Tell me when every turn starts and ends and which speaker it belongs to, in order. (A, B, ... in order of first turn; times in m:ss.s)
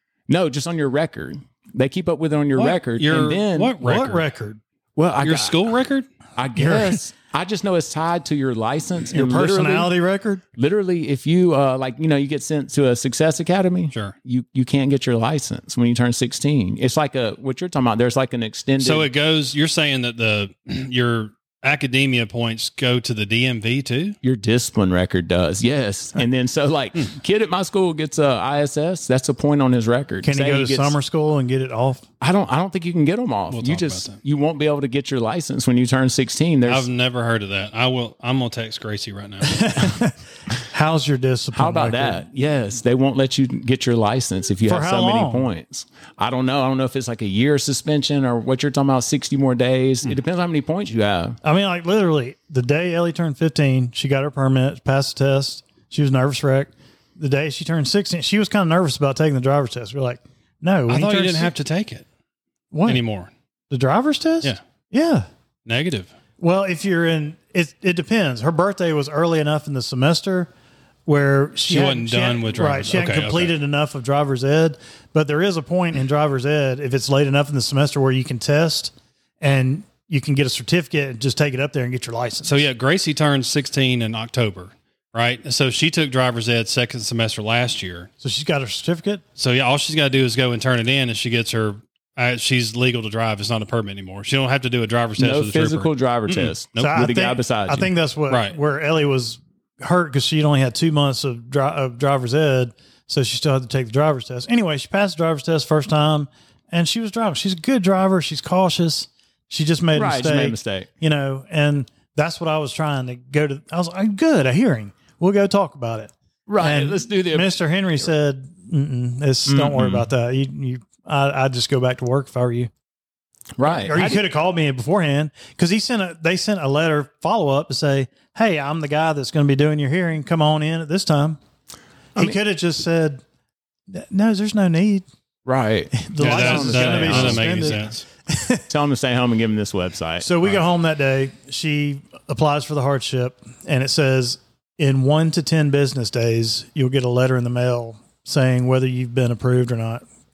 0:00.3-0:03.8 A
0:02.6-0:04.2 B
0:03.8-0:04.6 C
0:05.0-0:05.6 A
0:05.2-0:06.1 B
0:06.4-0:09.9 A
0:06.6-0:07.0 C
0:09.1-0:10.4 C
0:10.6-0:19.1 A
0:18.8-0:24.2 B
0:24.2-0:31.0 A
0:30.2-0:32.0 C
0:32.2-0:36.9 A
0:33.5-0:34.2 B
0:36.7-0:39.8 B
0:39.4-0:42.2 C
0:41.5-0:51.4 A
0:44.6-0:45.5 C
0:51.4-1:01.5 C
1:00.9-1:02.0 B
1:02.7-1:03.0 C
1:02.9-1:03.3 B
1:03.7-1:05.3 C
1:05.7-1:06.1 B
1:06.4-1:10.5 C
1:11.1-1:22.6 C
1:11.7-1:13.5 B
1:22.4-1:28.1 B
1:28.2-1:29.2 C
1:29.4-1:36.9 B
1:35.2-1:37.9 A
1:36.8-2:02.7 C
1:38.3-1:38.6 B
1:49.9-1:50.9 A
1:56.5-1:57.5 A
1:59.5-2:00.1 A
2:03.6-2:04.2 A
2:03.7-2:11.4 C
2:12.2-2:13.2 C
2:13.9-2:15.0 C
2:15.4-2:17.8 A
2:15.9-2:18.6 C
2:16.2-2:18.0 B
2:18.7-2:20.6 A
2:20.2-2:30.0 C